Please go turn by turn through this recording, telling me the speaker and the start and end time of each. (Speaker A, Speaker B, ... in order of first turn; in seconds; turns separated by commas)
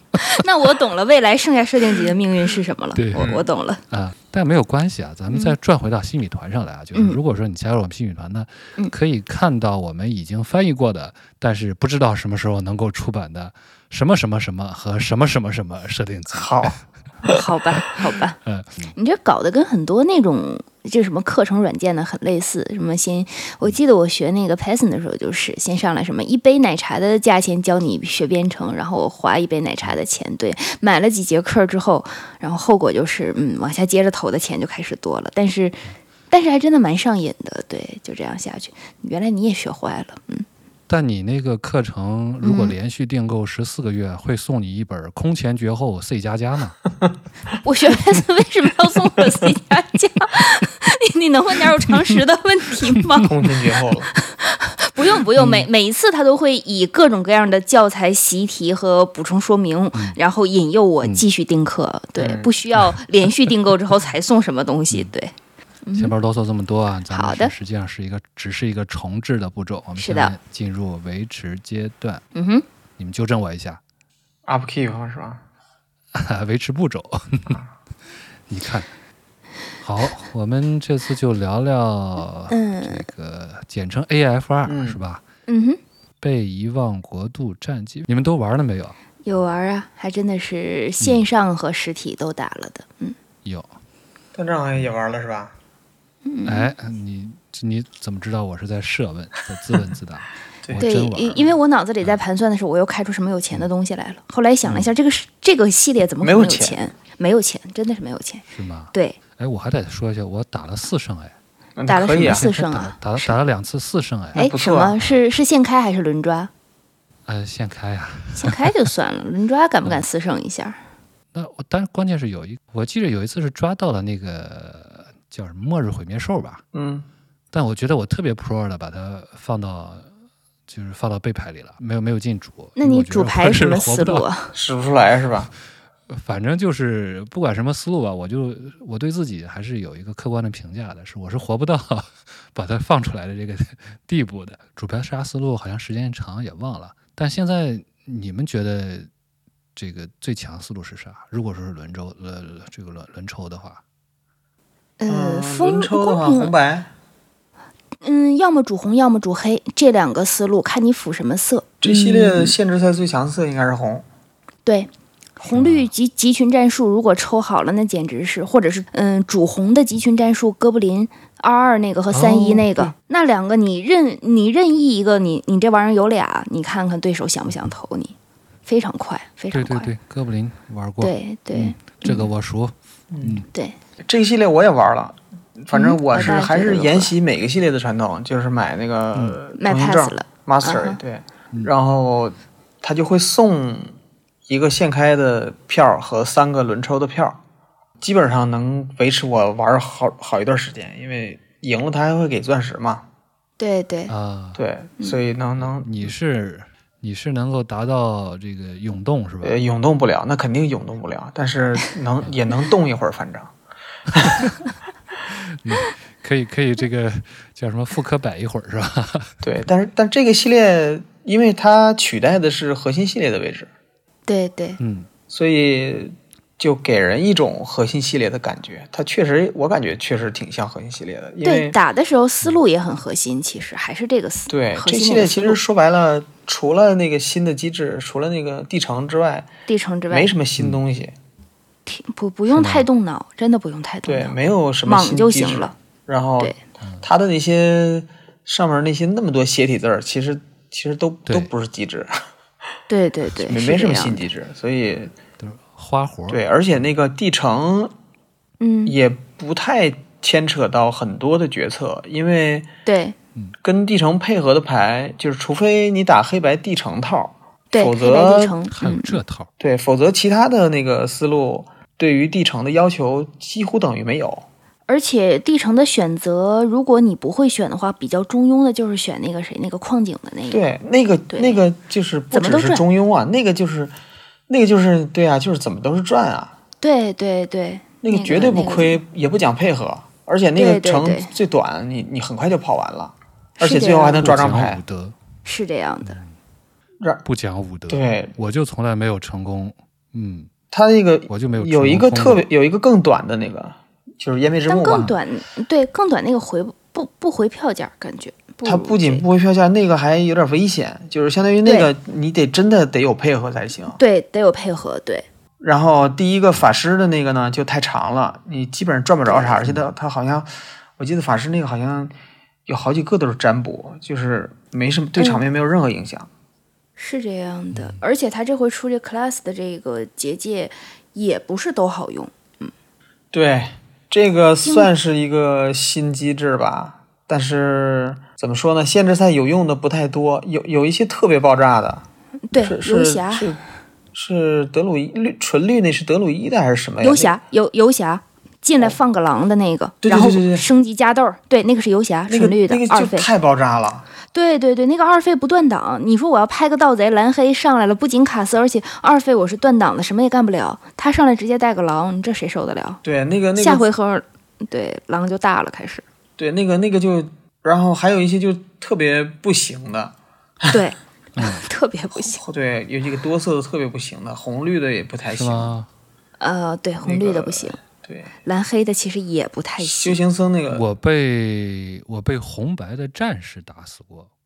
Speaker A: 0.2-3.8, Speaker B: 3.0-3.3, Speaker C: 3.1-3.5, Speaker B: 3.9-16.7, Speaker A: 5.3-5.6, Speaker C: 16.3-17.4, Speaker A: 17.2-18.4, Speaker B: 18.4-18.9, Speaker A: 19.0-40.5, Speaker B: 40.9-46.8, Speaker A: 42.4-42.8, Speaker A: 47.6-53.3, Speaker C: 53.2-54.1, Speaker A: 54.1-65.3, Speaker C: 55.4-55.6, Speaker C: 62.2-62.5, Speaker A: 65.9-66.1, Speaker B: 66.0-72.2, Speaker A: 67.1-67.5, Speaker A: 70.0-70.3, Speaker A: 72.3-72.7, Speaker B: 73.0-73.8, Speaker C: 74.5-75.4, Speaker B: 76.1-77.6, Speaker B: 78.5-78.9, Speaker B: 79.8-85.2, Speaker A: 82.5-83.0, Speaker C: 84.7-85.0, Speaker A: 85.5-85.8, Speaker B: 86.2-89.0, Speaker A: 89.3-93.2, Speaker B: 93.4-93.7, Speaker C: 94.3-95.5, Speaker A: 96.2-96.7, Speaker B: 96.5-101.4, Speaker A: 100.8-109.2, Speaker B: 104.7-104.9, Speaker C: 106.2-106.8, Speaker B: 108.5-111.3, Speaker C: 111.8-112.5, Speaker A: 111.9-113.3, Speaker B: 112.2-114.4, Speaker A: 114.3-116.5, Speaker C: 114.3-115.0, Speaker B: 117.3-118.6, Speaker A: 118.3-120.8, Speaker B: 121.3-126.6, Speaker C: 126.7-127.1, Speaker B: 127.5-130.1, Speaker B: 130.7-134.3, Speaker A: 132.8-134.5, Speaker C: 134.5-135.5, Speaker B: 136.1-149.1, Speaker B: 149.8-153.8, Speaker A: 155.0-156.5, Speaker C: 155.1-156.9, Speaker A: 158.0-162.5, Speaker C: 161.8-164.1, Speaker A: 164.7-178.1, Speaker B: 165.5-165.9, Speaker B: 172.1-172.9, Speaker A: 178.7-179.9, Speaker B: 179.5-183.5, Speaker A: 181.0-182.3, Speaker C: 183.1-183.4, Speaker C: 184.1-193.9, Speaker A: 185.7-187.1, Speaker A: 189.6-191.0, Speaker C: 194.5-197.4, Speaker C: 198.0-203.1, Speaker A: 203.6-204.1, Speaker B: 204.1-204.6, Speaker C: 204.6-206.1, Speaker B: 205.6-209.6, Speaker C: 209.4-213.5, Speaker C: 214.1-214.5, Speaker B: 215.3-219.3, Speaker C: 219.4-223.7, Speaker A: 224.3-224.8, Speaker B: 224.8-225.1, Speaker C: 225.3-231.8, Speaker A: 231.4-235.6, Speaker C: 234.5-239.5, Speaker A: 239.7-240.3, Speaker C: 240.1-241.1, Speaker A: 241.9-244.3, Speaker B: 242.5-242.9, Speaker C: 244.1-252.1, Speaker A: 244.8-245.7, Speaker B: 246.8-247.1, Speaker A: 252.9-254.3, Speaker C: 253.4-255.1, Speaker B: 255.4-256.4, Speaker C: 256.3-257.9, Speaker A: 258.6-258.9, Speaker C: 258.9-262.7, Speaker A: 262.9-263.1, Speaker C: 263.6-268.6, Speaker A: 267.7-269.2, Speaker B: 268.7-269.5, Speaker C: 269.6-274.5, Speaker A: 274.9-280.6, Speaker C: 280.5-283.9, Speaker A: 281.3-281.6, Speaker A: 282.3-282.8, Speaker C: 284.5-286.5, Speaker A: 286.8-289.0, Speaker C: 288.0-294.8, Speaker A: 290.6-291.3, Speaker A: 293.6-294.2, Speaker B: 294.2-295.2, Speaker A: 295.4-296.2, Speaker B: 296.1-296.3, Speaker B: 297.2-300.5, Speaker C: 297.9-298.4, Speaker C: 300.7-305.2, Speaker B: 301.3-302.5, Speaker A: 304.7-309.2, Speaker C: 308.6-314.0, Speaker A: 311.6-311.9, Speaker A: 314.0-315.3, Speaker C: 315.6-322.1, Speaker A: 319.2-319.6, Speaker C: 322.7-326.3, Speaker A: 325.2-325.4, Speaker A: 327.0-332.7, Speaker B: 327.7-328.0, Speaker C: 333.3-343.6, Speaker A: 334.6-334.9, Speaker A: 342.5-343.5, Speaker C: 344.1-347.4, Speaker A: 347.0-353.3, Speaker C: 350.0-350.7, Speaker C: 352.3-354.1, Speaker A: 354.3-363.0, Speaker C: 363.0-363.9, Speaker A: 363.6-366.0, Speaker C: 366.4-370.1, Speaker A: 370.7-372.4, Speaker B: 371.4-371.6, Speaker C: 372.1-375.7, Speaker B: 375.3-375.9, Speaker A: 376.4-377.8, Speaker C: 377.0-378.3, Speaker A: 378.4-380.2, Speaker C: 379.8-380.9, Speaker B: 380.7-384.3